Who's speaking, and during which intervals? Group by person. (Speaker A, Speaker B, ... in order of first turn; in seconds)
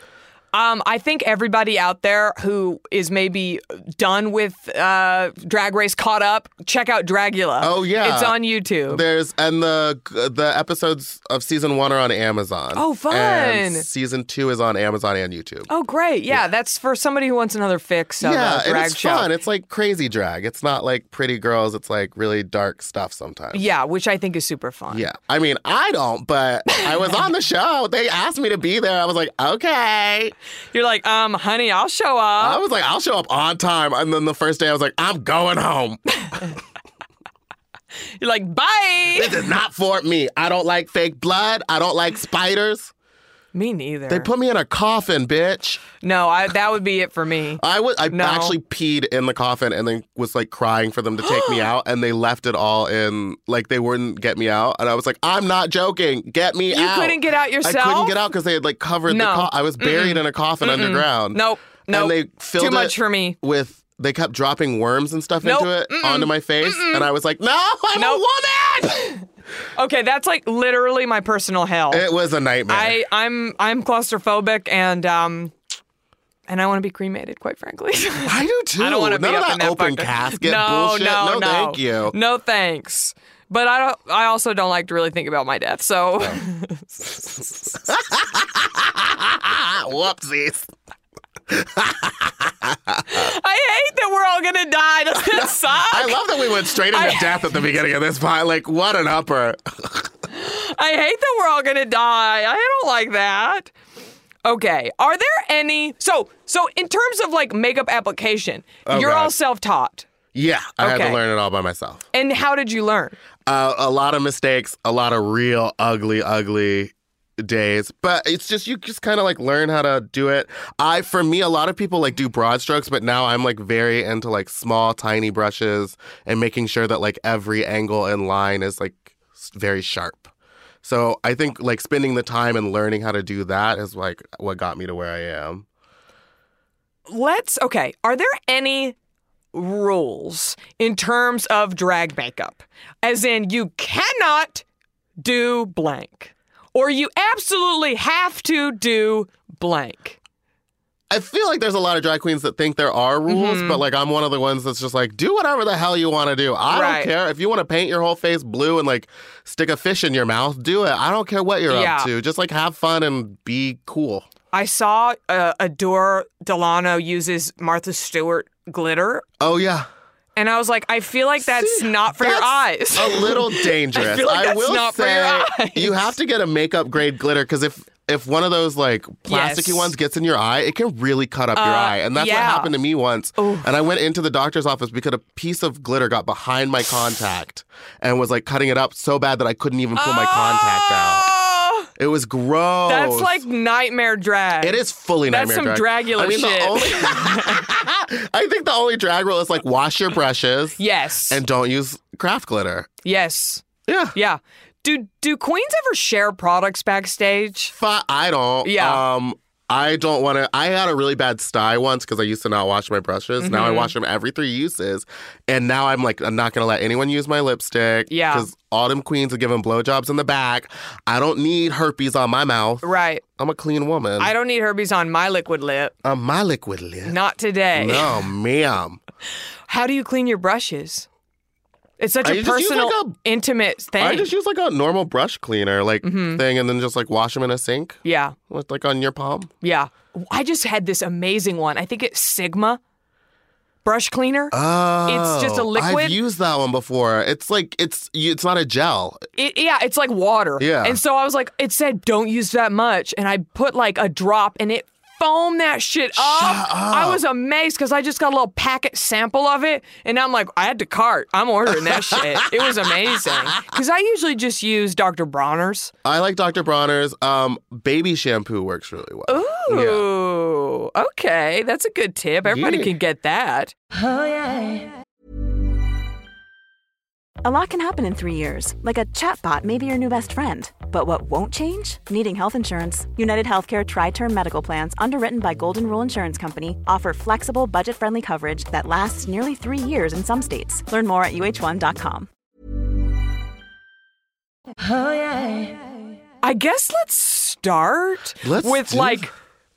Speaker A: 0.5-9.0, 12.7-13.8, 15.7-19.3, 23.5-25.1, 30.7-32.6, 36.2-36.5, 38.2-39.3, 43.5-44.3, 46.0-48.5, 51.2-51.6, 56.7-58.1, 59.1-63.4, 65.4-67.1, 67.9-68.2, 69.8-72.0, 72.7-75.5, 76.5-87.7, 93.1-96.2, 96.9-97.5, 100.3-103.7, 104.4-110.1, 110.8-111.2, 112.1-113.2, 137.1-138.9, 139.5-144.6, 145.2-150.2, 153.3-153.8, 156.7-157.1, 161.7-162.1, 164.5-169.2, 170.3-176.1, 179.3-179.9, 181.6-182.7, 183.4-183.7, 190.0-191.9, 192.9-197.7, 200.8-201.4, 203.0-207.7, 208.6-209.0, 213.4-213.9, 218.1-218.5, 222.8-223.2, 224.2-225.9, 227.0-228.1, 229.7-231.1, 232.0-234.3, 236.0-236.4, 238.0-238.4, 239.6-242.8, 243.8-244.5, 245.1-246.2, 249.4-265.9, 269.3-273.7, 296.4-299.3
Speaker B: 7.6-8.4, 8.9-15.7, 18.2-23.7, 24.9-30.3, 32.4-36.0, 39.1-42.9, 44.1-45.8, 47.6-69.2, 71.9-73.0, 78.2-82.1, 87.8-90.7, 91.5-93.3, 95.3-100.1, 108.8-109.3, 110.3-112.0, 113.5-130.3, 130.8-135.7, 151.1-164.3, 169.4-169.9, 171.4-191.3, 192.0-193.4, 194.6-202.9, 203.9-204.1, 207.7-224.3, 226.0-227.2, 227.7-229.0, 232.2-233.2, 234.0-239.5, 244.5-249.2, 250.6-251.0, 256.1-257.2, 261.8-263.7, 266.0-270.1, 272.4-272.9, 298.4-299.3
Speaker C: 277.4-292.3